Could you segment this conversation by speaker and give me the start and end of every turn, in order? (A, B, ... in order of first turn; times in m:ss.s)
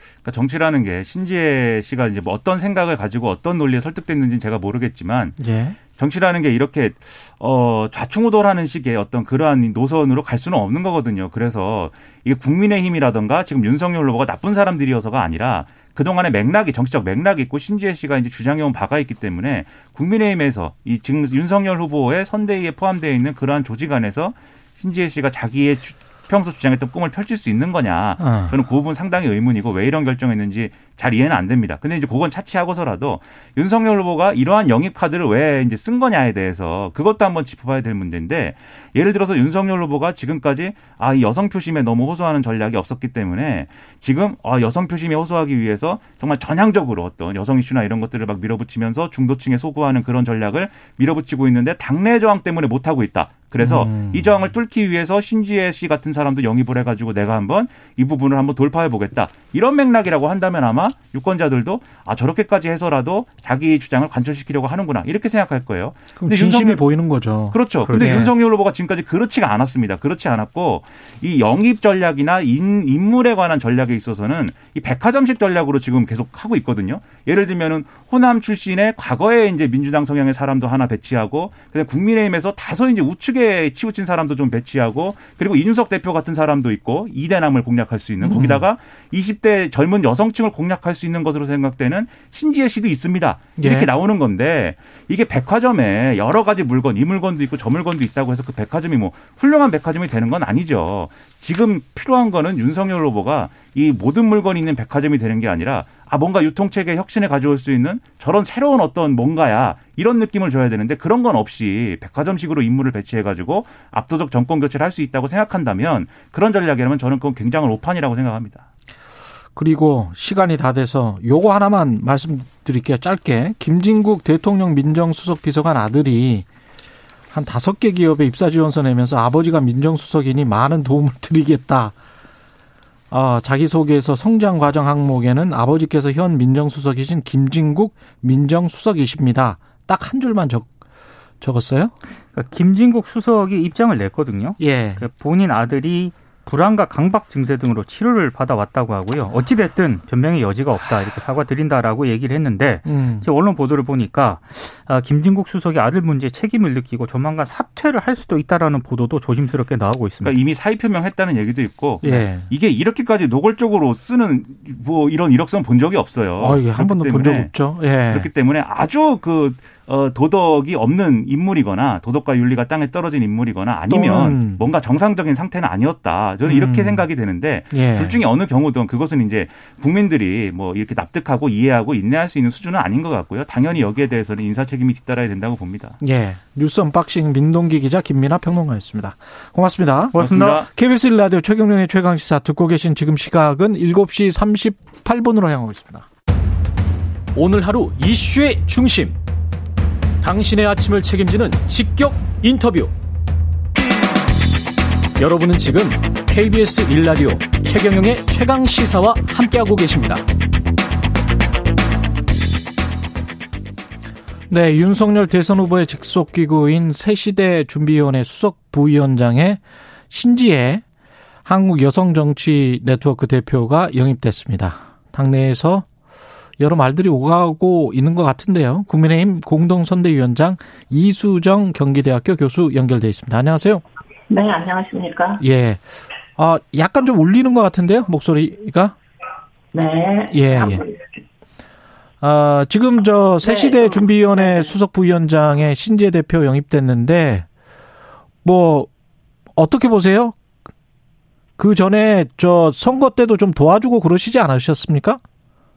0:00.2-0:05.4 A
0:05.4-0:05.8 B
0:05.9-1:06.8 A
0:28.2-0:28.5 B
0:53.6-0:54.3 B
1:06.2-1:08.3 B
1:07.5-1:58.6 A
1:07.8-1:08.3 C
1:28.2-1:28.6 B
1:33.6-1:33.9 B
1:59.6-2:06.4 B
2:07.3-2:11.9 B
2:13.1-2:20.7 B
2:21.4-2:21.9 B
2:22.3-2:40.4 C
2:24.6-2:25.0 B
2:32.8-2:33.3 B
2:40.2-3:06.0 A
2:42.0-2:42.5 B
2:46.4-2:48.3 B
2:53.9-2:54.6 B
2:56.4-2:57.1 B
2:57.7-2:58.2 B
3:06.0-3:16.1 B
3:10.1-3:10.6 C
3:10.2-3:10.7 A
3:17.3-3:19.2 D
3:20.2-3:22.9 D
3:25.2-3:30.2 D
3:34.5-3:40.8 B
3:41.4-3:45.9 B
3:46.6-3:53.8 B
3:54.3-3:55.4 E
3:55.4-3:55.8 B
3:56.4-3:58.9 B
3:59.7-4:01.1 E
4:00.3-4:00.8 B
4:02.2-4:07.5 B
4:03.4-4:04.7 E
4:08.4-4:08.9 B
4:09.6-4:10.4 B
4:11.6-4:15.2 B